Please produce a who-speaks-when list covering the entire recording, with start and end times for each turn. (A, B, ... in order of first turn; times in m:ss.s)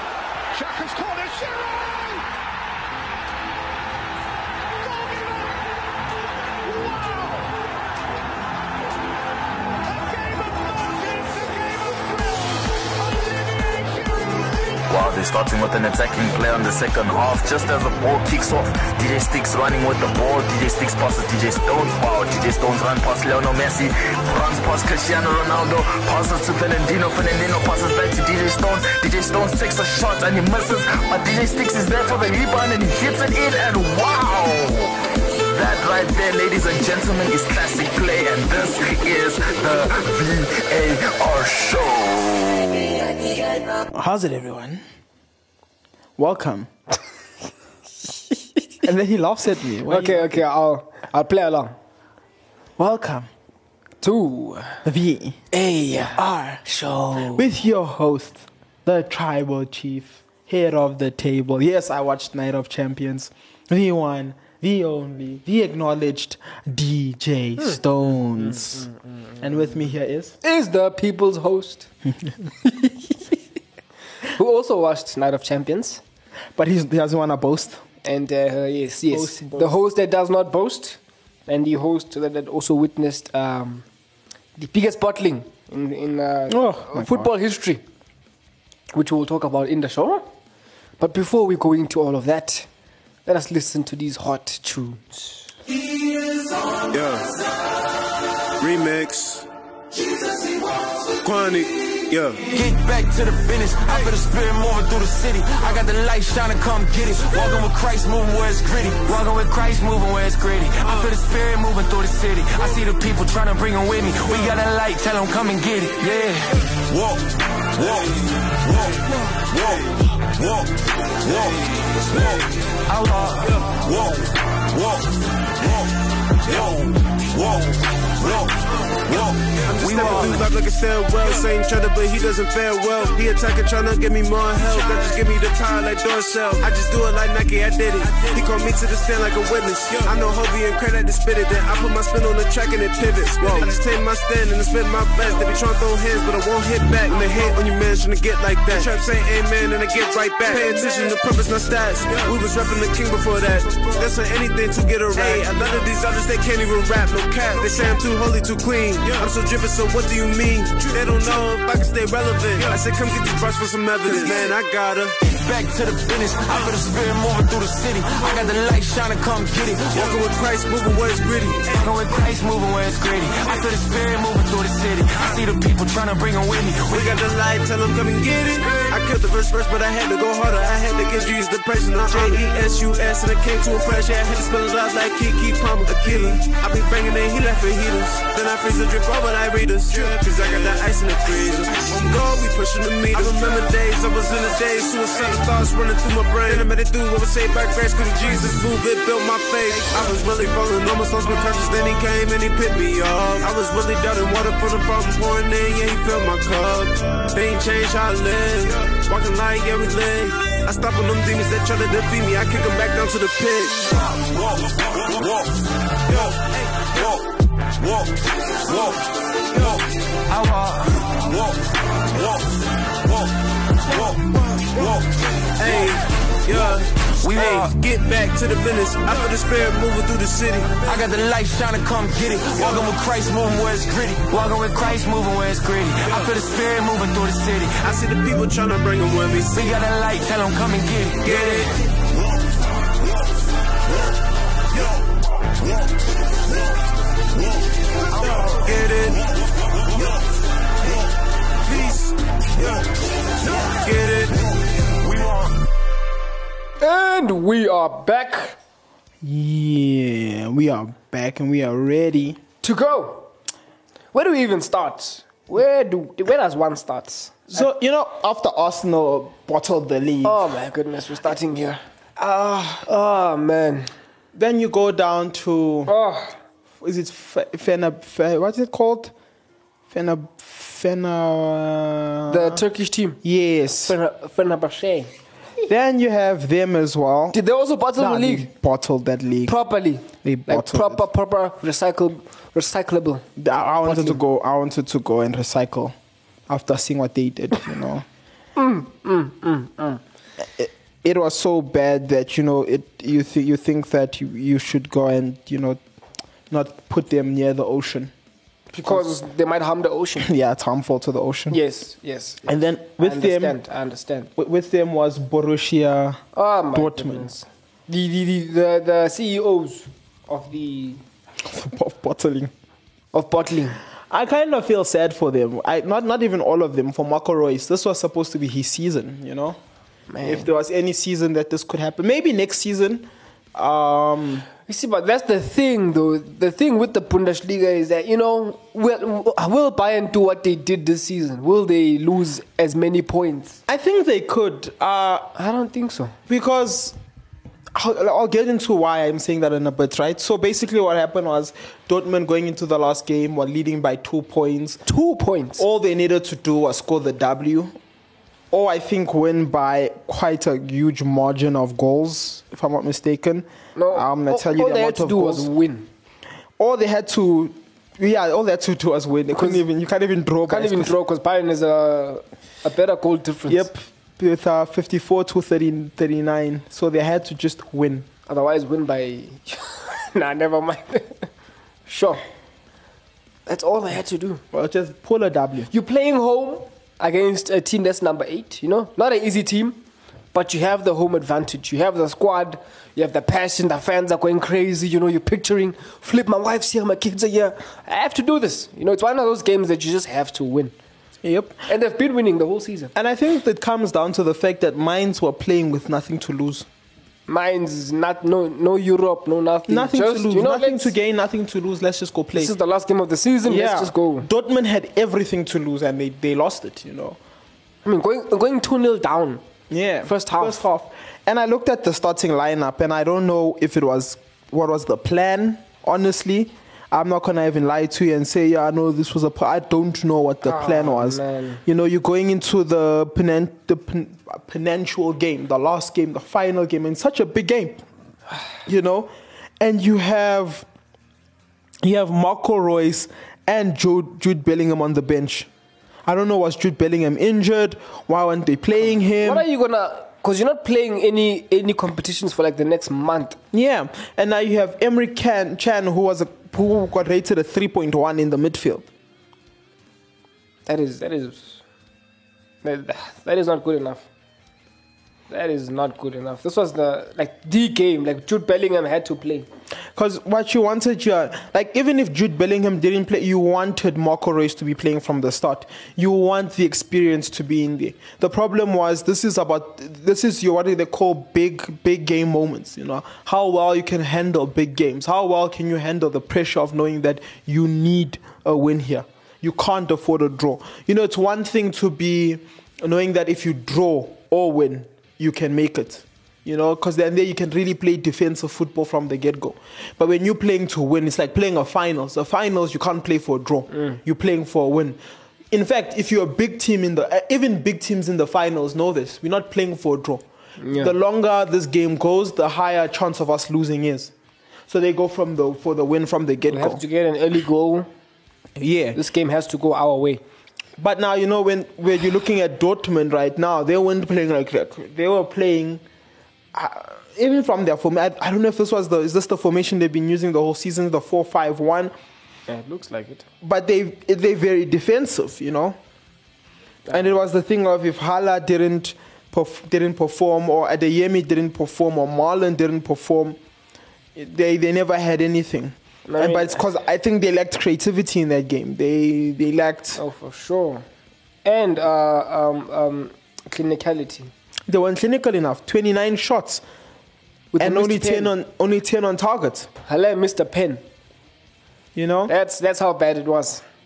0:00.5-0:02.3 A
0:04.8-0:05.8 A
0:06.6-0:07.6 A
0:09.8-0:14.4 A
0:14.9-0:43.4 B
0:43.9-0:44.8 C
0:46.2-0:46.7 C
0:48.8-0:50.4 C
0:49.9-0:51.8 D
0:52.8-0:53.3 C
0:54.0-0:54.8 D
0:54.8-0:55.4 C
0:55.5-0:57.4 D
0:56.1-1:08.9 C
1:08.5-1:09.0 D
1:09.4-1:10.4 C
1:10.4-1:11.9 D
1:12.7-1:13.0 D
1:14.3-1:16.0 D
1:16.6-1:17.8 C
1:18.0-1:23.8 D
1:19.1-1:19.8 C
1:24.6-1:27.8 D
1:26.5-1:27.3 C
1:28.9-1:30.3 D
1:31.0-1:32.7 D
1:33.3-1:35.5 D
1:36.9-1:37.3 E
1:38.6-1:39.5 E
1:41.2-1:42.4 E
1:42.5-1:58.1 F
1:59.5-1:59.8 F
2:01.2-2:01.5 F
2:02.1-2:04.1 F
2:06.5-2:06.8 E
2:06.5-2:06.8 F
2:09.1-2:45.1 E
2:09.2-2:10.5 F
2:45.2-2:50.2 F
2:49.9-2:51.9 E
2:51.7-2:57.2 F
2:56.9-3:34.1 E
3:35.1-3:35.4 F
3:36.1-3:36.5 E
3:40.3-3:41.4 F
3:45.6-3:50.7 E
3:47.2-3:47.8 F
3:50.8-3:57.9 F
3:57.8-3:59.8 E
3:59.5-4:01.8 F
4:01.2-4:01.8 E
4:08.1-4:09.2 E
4:11.6-4:12.8 E
4:13.6-4:14.5 E
4:15.1-4:15.5 F
4:16.8-4:18.6 D
4:19.2-4:22.4 C
4:22.6-4:23.3 D
4:24.1-4:27.6 D
4:27.5-4:30.4 C
4:30.2-4:31.8 D
4:32.2-4:32.8 C
4:32.8-4:33.9 D
4:34.3-4:36.0 C
4:35.9-4:36.4 D
4:36.8-4:39.1 C
4:39.9-4:42.6 C
4:42.3-4:43.2 D
4:43.2-4:44.0 C
4:43.8-4:45.1 D
4:45.7-4:47.4 C
4:47.3-4:48.5 D
4:48.0-4:49.6 C
4:49.5-4:53.2 D
4:50.1-4:51.0 C
4:53.4-4:56.0 C
4:53.8-4:54.2 D
4:56.5-4:58.0 C
4:58.6-5:00.0 D
5:00.6-5:05.8 C
5:06.5-5:08.1 C
5:08.7-5:10.3 D
5:08.8-5:09.1 C
5:10.2-5:11.6 C
5:11.5-5:14.3 D
5:12.5-5:13.6 C
5:14.4-5:16.2 C
5:16.4-5:21.0 D
5:16.7-5:17.3 C
5:21.4-5:22.5 C
5:23.1-5:23.8 D
5:24.1-5:29.6 C
5:30.1-5:30.5 D
5:30.2-5:34.5 C
5:34.7-5:43.6 D
5:43.7-5:45.3 C
5:45.4-5:46.1 D
5:46.3-5:47.0 C
5:47.8-5:54.8 C
5:54.9-5:55.6 D
5:55.6-5:57.7 C
5:58.5-6:05.5 C
6:03.8-6:05.9 D
6:06.6-6:11.0 C
6:09.3-6:09.6 D
6:10.5-6:13.7 D
6:13.5-6:18.1 C
6:18.3-6:21.3 D
6:21.9-6:22.2 D
6:23.5-6:24.4 D
6:24.5-6:25.7 C
6:25.7-6:29.8 D
6:30.3-6:40.8 D
6:41.2-6:41.6 C
6:41.7-6:42.9 D
6:43.0-6:46.7 C
6:47.3-6:50.9 D
6:49.7-6:52.5 C
6:52.4-6:54.3 D
6:53.4-6:57.2 C
6:57.8-6:59.4 D
6:59.7-7:17.8 C
7:00.1-7:00.6 D
7:10.4-7:11.6 D
7:18.6-7:20.7 C
7:21.8-7:25.5 C
7:26.1-7:29.5 C
7:29.2-7:33.4 D
7:33.5-7:38.9 C
7:40.7-7:41.6 D
7:42.6-7:44.1 D
7:45.3-7:49.5 D
7:50.0-8:25.0 C
8:23.7-8:24.0 D
8:25.5-8:34.1 C
8:30.6-8:30.9 D
8:34.7-8:36.8 C
8:36.5-8:37.9 D
8:38.6-8:39.0 C
8:39.0-8:40.2 D
8:40.8-8:45.8 C
8:46.5-8:51.9 C
8:52.5-8:53.2 D
8:53.4-8:55.8 C
8:56.9-9:03.4 C
9:04.2-9:10.0 C
9:06.1-9:06.6 D
9:10.0-9:10.9 D
9:11.4-9:14.3 D
9:14.7-9:16.6 C
9:17.5-9:18.3 D
9:17.6-9:19.7 C
9:19.8-9:20.8 D
9:22.0-9:22.3 C
9:22.3-9:23.6 D